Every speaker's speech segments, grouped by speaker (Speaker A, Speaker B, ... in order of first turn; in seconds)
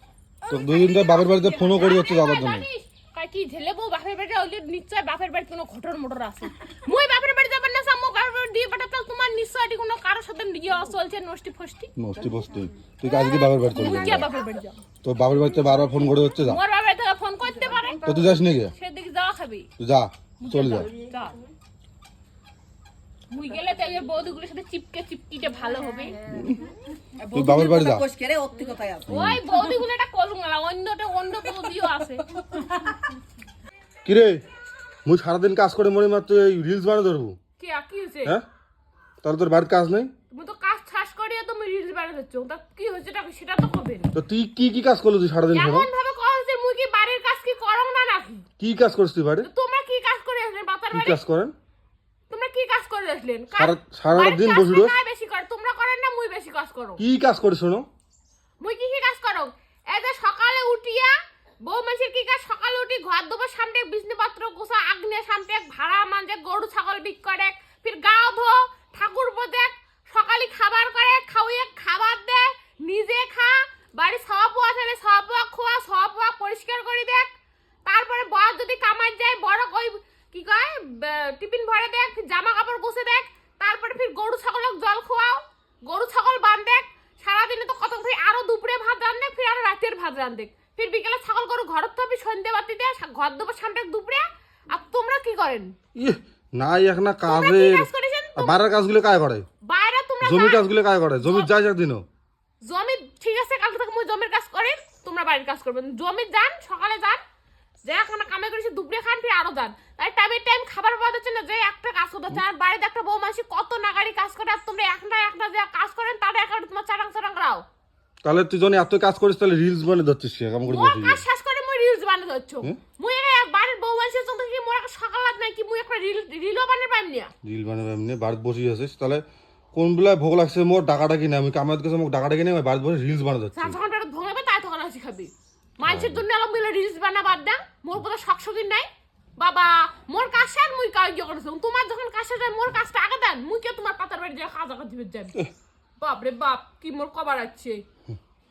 Speaker A: 0.5-2.6, 12.0-14.3, 15.0-16.6, 18.0-18.7, 19.8-20.9, 26.3-26.6, 27.3-28.0, 29.1-29.4, 34.0-34.4, 35.0-37.4, 39.2-40.1, 44.1-45.9, 48.6-49.5, 50.9-51.5, 53.5-54.9, 57.0-57.9, 95.9-99.5, 100.2-102.0, 118.2-121.2, 127.4-129.2, 129.7-133.8, 135.8-136.2
Speaker B: 0.6-1.5, 27.2-29.3
Speaker C: 1.4-11.9, 13.1-14.8, 16.4-18.1, 18.7-19.7, 20.4-21.4, 23.3-26.2, 29.1-32.3, 37.6-38.4, 40.3-44.1, 45.5-48.5, 49.4-51.2, 52.3-57.0, 58.6-77.3, 77.8-95.7, 97.3-98.6, 99.6-100.7, 101.2-101.5, 102.6-107.2, 107.8-117.6, 120.7-127.3, 133.5-145.3, 146.0-147.8